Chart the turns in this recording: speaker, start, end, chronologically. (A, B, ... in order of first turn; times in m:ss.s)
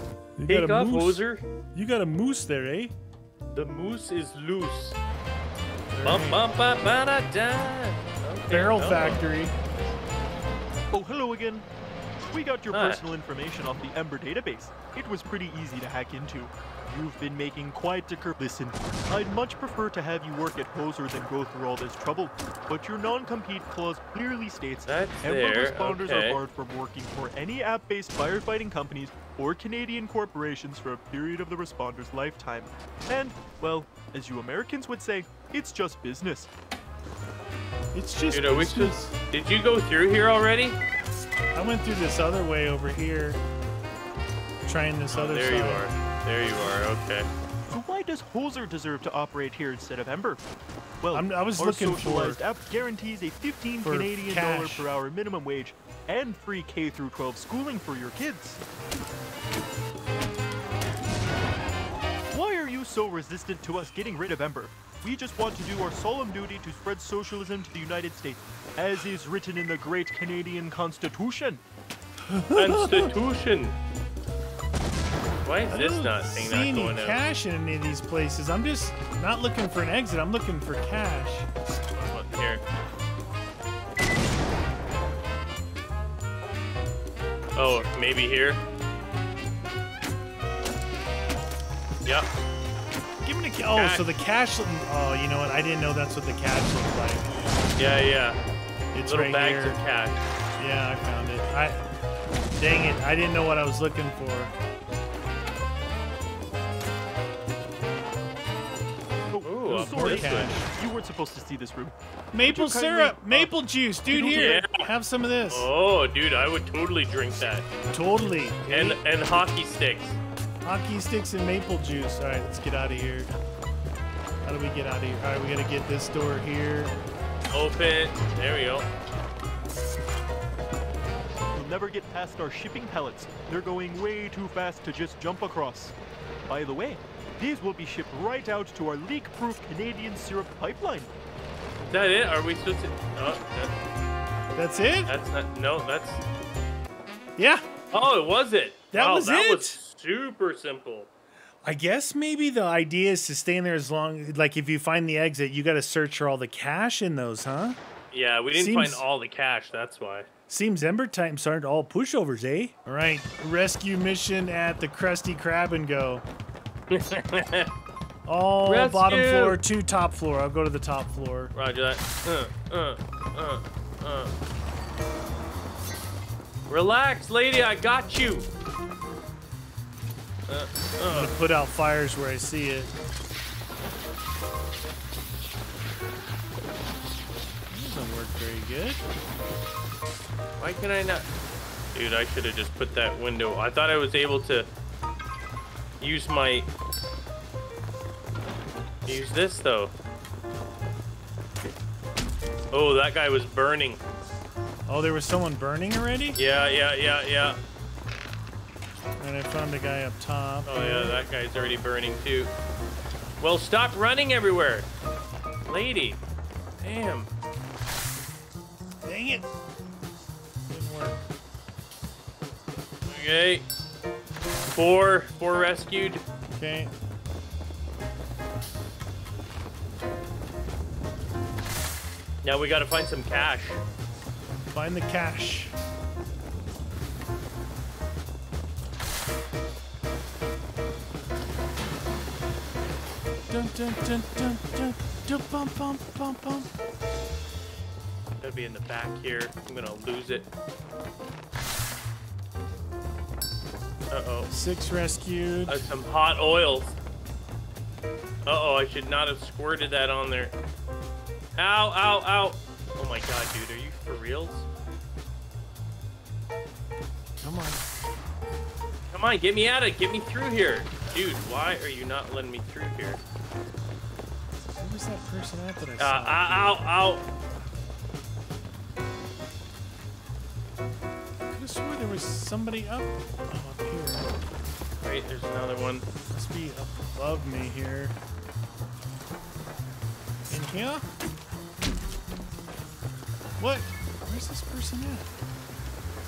0:00.4-0:01.2 A
0:00.5-0:01.4 B
0:01.7-0:02.9 A
0:03.5-0:05.0 B
0:05.9-0:06.4 A
0:06.0-0:09.2 B
0:08.5-0:09.5 A
0:10.9-0:11.6 C
0:12.2-0:36.5 C
0:12.7-0:13.0 B
0:24.8-0:26.4 B
0:37.9-0:39.1 A
0:38.3-0:40.8 B
0:41.5-0:43.4 A
0:44.6-0:45.8 A
0:45.1-0:47.3 B
0:47.7-0:50.4 C
0:51.0-0:58.6 C
0:51.1-0:52.4 A
0:53.8-0:54.9 A
1:02.3-1:11.6 C
1:12.2-1:13.1 A
1:12.6-1:13.7 B
1:15.4-1:17.2 B
1:15.7-1:21.5 A
1:21.9-1:22.6 B
1:27.5-1:28.6 B
1:33.2-1:37.3 A
1:33.7-1:34.1 B
1:37.8-1:38.4 B
1:38.9-1:39.8 A
1:39.0-1:40.2 B
1:40.6-1:41.9 A
1:42.6-1:44.5 A
1:49.3-1:53.5 C
1:49.4-1:50.5 B
1:49.7-1:50.7 A
1:52.3-1:55.7 A
1:54.1-1:54.6 C
1:54.3-1:54.8 B
1:55.5-1:57.6 B
1:57.9-1:59.0 A
1:58.7-2:00.2 B
2:00.6-2:03.4 A
2:04.4-2:06.9 A
2:07.5-2:08.9 B
2:11.5-2:15.9 C
2:16.5-2:21.1 C
2:21.8-2:23.7 B
2:24.6-2:25.1 A
2:25.1-2:26.2 B
2:27.4-2:27.7 A
2:27.9-2:31.1 B
2:28.9-2:29.8 A
2:31.6-2:37.8 A
2:38.1-2:40.3 B
2:38.5-2:39.0 A
2:40.5-2:46.2 A
2:46.9-2:47.7 B
2:48.2-2:51.5 A
2:48.6-2:49.6 B
2:51.5-2:54.3 B
2:56.7-2:58.5 B
3:00.5-3:01.4 B
3:01.1-3:02.9 A
3:07.7-3:09.0 A
3:10.6-3:11.2 B
3:11.9-3:14.7 B
3:16.0-3:16.7 B
3:19.0-3:19.9 B
3:22.7-3:24.0 B
3:24.9-3:26.4 A
3:26.4-3:27.6 B
3:29.2-3:31.2 A
3:30.6-3:32.5 B
3:33.4-3:34.9 B
3:35.6-3:36.2 B
3:36.8-3:37.3 B
3:39.0-3:39.4 A
3:40.7-3:41.2 A
3:43.0-3:43.6 B
3:44.7-3:46.2 B
3:46.6-3:46.9 A
3:52.4-3:53.8 B
3:54.7-3:55.7 A
4:03.5-4:06.7 A
4:08.4-4:10.5 B
4:14.1-4:14.5 B
4:14.5-4:15.8 A
4:15.7-4:17.0 B
4:18.4-4:20.5 B
4:21.5-4:24.7 B
4:27.4-4:27.8 A
4:29.1-4:33.2 B
4:34.8-4:36.8 A
4:36.0-4:37.2 B
4:41.5-4:44.3 A
4:45.0-4:46.0 B
4:46.3-4:48.2 A
4:50.5-4:51.0 A
4:53.6-4:55.3 A